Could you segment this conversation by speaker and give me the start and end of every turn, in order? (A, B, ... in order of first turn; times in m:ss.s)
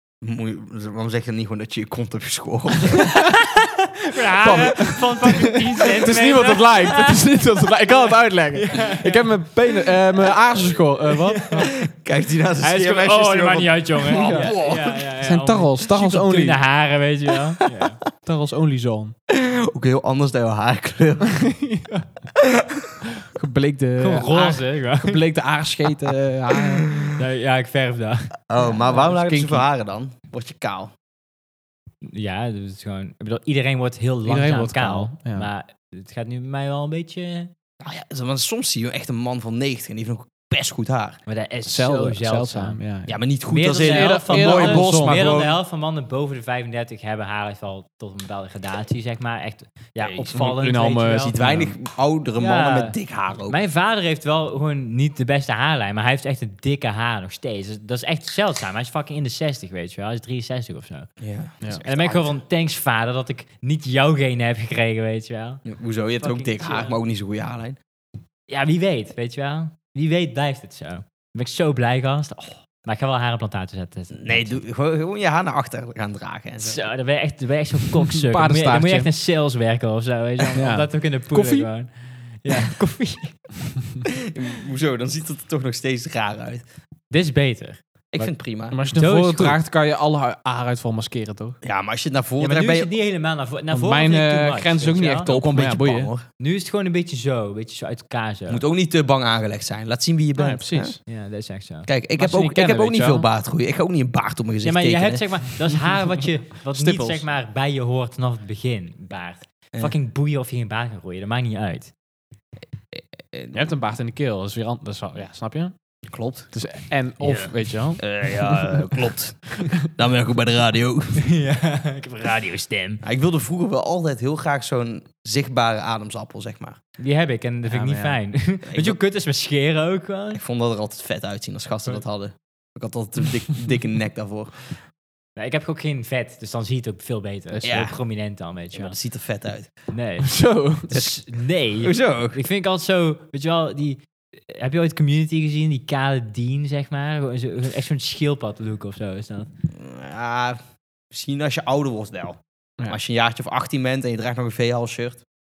0:00.2-0:03.1 A
0:04.1-0:09.4 B
0:04.4-0:11.7 C
0:11.1-0:11.7 B
0:11.9-0:15.0 A
0:12.6-0:18.0 B
0:14.1-0:14.6 C
0:15.2-0:16.6 C
0:18.2-0:19.1 C
0:19.3-0:21.5 A
0:21.4-0:22.1 C
0:22.4-0:22.8 A
0:23.2-0:26.9 C
0:24.0-0:25.2 B
0:27.0-0:28.8 B
0:28.5-0:30.9 A
0:28.6-0:29.6 C
0:32.0-0:37.5 B
0:34.2-0:35.5 C
0:37.8-0:41.2 A
0:41.3-0:42.8 B
0:41.6-0:43.2 C
0:43.1-0:45.5 A
0:43.4-0:51.3 B
0:43.8-0:45.4 C
0:50.0-0:50.6 A
0:50.3-0:51.7 C
0:51.2-0:53.6 A
0:52.4-1:07.0 B
1:01.2-1:02.4 A
1:05.6-1:07.8 A
1:08.5-1:14.6 B
1:14.2-1:16.8 A
1:16.6-1:23.7 B
1:18.1-1:19.1 C
1:20.5-1:21.7 C
1:24.3-1:26.6 A
1:27.1-1:28.3 B
1:28.1-1:28.8 A
1:28.7-1:31.6 C
1:28.9-1:29.6 B
1:31.6-1:32.9 A
1:32.4-1:35.4 B
1:33.7-1:36.1 C
1:35.3-1:36.2 A
1:36.4-1:38.6 B
1:38.5-1:41.0 A
1:40.4-1:41.0 C
1:41.1-1:41.9 B
1:41.9-1:45.3 A
1:42.2-1:43.3 C
1:44.6-1:51.9 B
1:46.7-1:47.2 C
1:52.9-1:53.6 A
1:53.5-1:55.7 C
1:56.1-1:56.5 A
1:56.5-1:58.8 C
1:57.2-2:01.2 A
2:01.2-2:03.0 B
2:03.0-2:06.8 A
2:07.0-2:10.4 B
2:07.6-2:08.2 C
2:08.7-2:09.0 A
2:10.3-2:14.8 A
2:15.4-2:19.0 B
2:17.5-2:17.8 C
2:17.6-2:18.0 A
2:18.7-2:19.7 A
2:19.9-2:29.5 B
2:20.2-2:20.9 C
2:20.9-2:21.3 A
2:21.8-2:22.4 A
2:29.7-2:35.2 A